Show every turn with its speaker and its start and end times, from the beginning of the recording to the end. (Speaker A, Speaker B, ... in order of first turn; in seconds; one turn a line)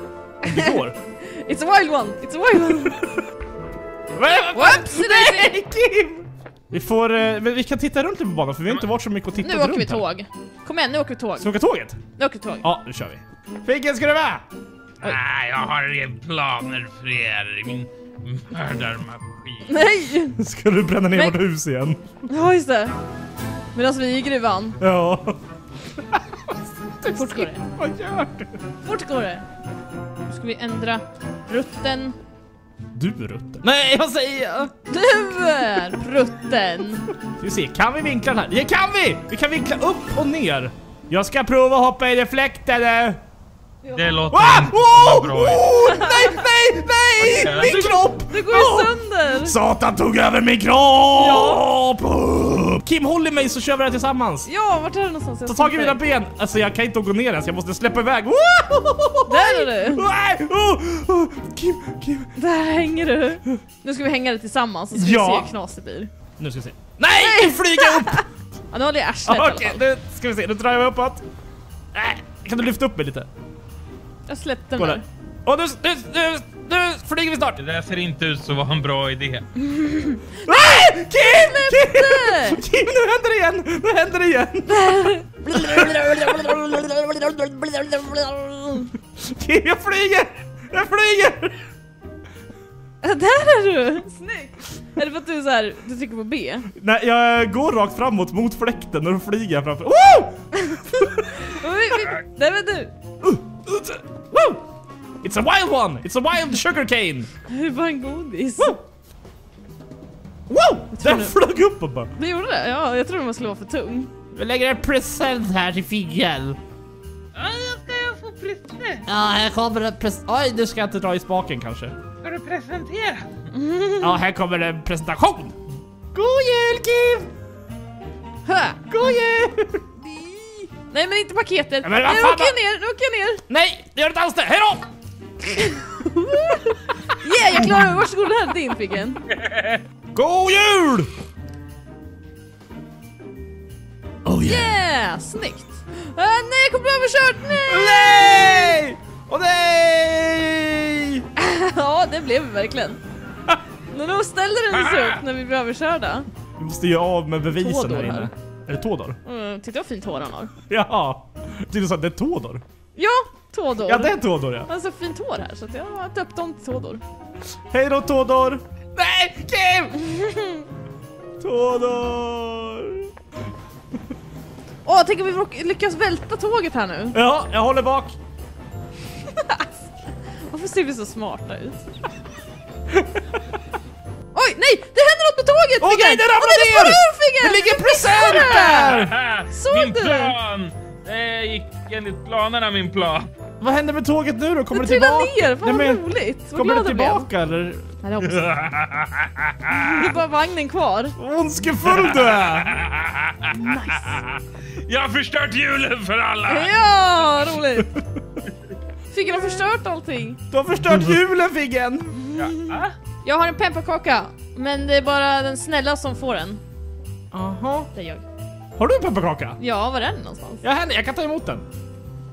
Speaker A: 0.5-3.1
Speaker B: 0.5-1.0
Speaker B: 4.2-10.1
Speaker A: 4.5-5.5
Speaker A: 9.4-11.5
Speaker B: 11.4-12.0
Speaker A: 12.2-12.7
Speaker B: 12.6-14.4
Speaker C: 15.0-19.9
Speaker A: 19.7-20.4
Speaker B: 20.4-22.0
Speaker A: 21.1-21.4
Speaker A: 22.3-22.9
Speaker A: 23.8-24.8
Speaker B: 24.8-25.4
Speaker B: 26.1-28.6
Speaker A: 27.0-27.6
Speaker A: 28.8-29.4
Speaker A: 30.3-32.2
Speaker B: 33.0-34.7
Speaker A: 34.9-37.1
Speaker B: 37.4-43.2
Speaker C: 43.9-45.8
Speaker B: 44.3-54.5
Speaker A: 45.9-46.4
Speaker C: 47.2-48.0
Speaker A: 47.6-49.6
Speaker A: 51.1-51.6
Speaker A: 54.5-56.0
Speaker B: 55.5-62.3
Speaker A: 59.3-60.0
Speaker A: 62.4-66.1
Speaker B: 64.9-65.5
Speaker B: 66.4-68.2
Speaker A: 67.2-69.8
Speaker B: 69.3-71.2
Speaker B: 71.9-73.3
Speaker A: 74.3-75.0
Speaker B: 74.8-77.6
Speaker C: 77.6-79.5
Speaker A: 79.6-82.6
Speaker B: 80.5-91.6
Speaker A: 84.7-85.2
Speaker A: 93.0-96.7
Speaker B: 96.8-101.0
Speaker A: 100.6-102.9
Speaker B: 103.2-104.7
Speaker B: 105.2-107.3
Speaker A: 107.5-108.7
Speaker B: 108.6-108.8
Speaker B: 110.5-112.1
Speaker A: 110.9-111.4
Speaker A: 112.2-114.1
Speaker B: 114.3-116.6
Speaker C: 117.3-119.0
Speaker B: 119.1-122.0
Speaker C: 122.2-123.3
Speaker A: 123.5-124.2
Speaker B: 124.0-125.6
Speaker B: 126.1-127.3
Speaker A: 128.5-129.0
Speaker B: 128.9-129.9
Speaker A: 130.1-133.4
Speaker B: 131.8-132.6
Speaker B: 133.5-134.9
Speaker A: 135.6-139.2
Speaker B: 137.5-138.0
Speaker C: 139.3-139.8
Speaker B: 140.1-141.1
Speaker B: 144.2-144.8
Speaker A: 144.4-148.4
Speaker B: 147.6-151.3
Speaker A: 151.4-153.0
Speaker A: 153.9-156.3
Speaker C: 154.7-155.2
Speaker B: 156.6-159.2
Speaker A: 157.6-158.3
Speaker A: 159.2-160.5
Speaker B: 160.7-162.6
Speaker A: 163.0-167.0
Speaker B: 163.8-164.7
Speaker B: 167.7-170.0
Speaker A: 170.0-170.7
Speaker B: 171.4-173.1
Speaker A: 174.8-177.2
Speaker B: 177.1-178.2
Speaker A: 179.3-179.7
Speaker A: 180.5-181.8
Speaker B: 182.9-183.4
Speaker A: 184.3-189.0
Speaker B: 185.8-189.2
Speaker C: 188.4-193.3
Speaker A: 189.5-190.3
Speaker B: 193.6-197.9
Speaker A: 194.7-197.3
Speaker A: 198.0-198.5
Speaker C: 198.2-200.1
Speaker A: 199.8-201.2
Speaker B: 201.2-202.8
Speaker C: 201.8-206.8
Speaker A: 203.6-204.2
Speaker A: 206.5-207.9
Speaker A: 209.1-210.4
Speaker B: 210.5-212.2
Speaker A: 212.2-216.6
Speaker C: 212.3-212.9
Speaker B: 217.3-217.9
Speaker A: 217.9-218.2
Speaker B: 218.8-219.6
Speaker A: 219.6-220.6
Speaker B: 220.6-221.7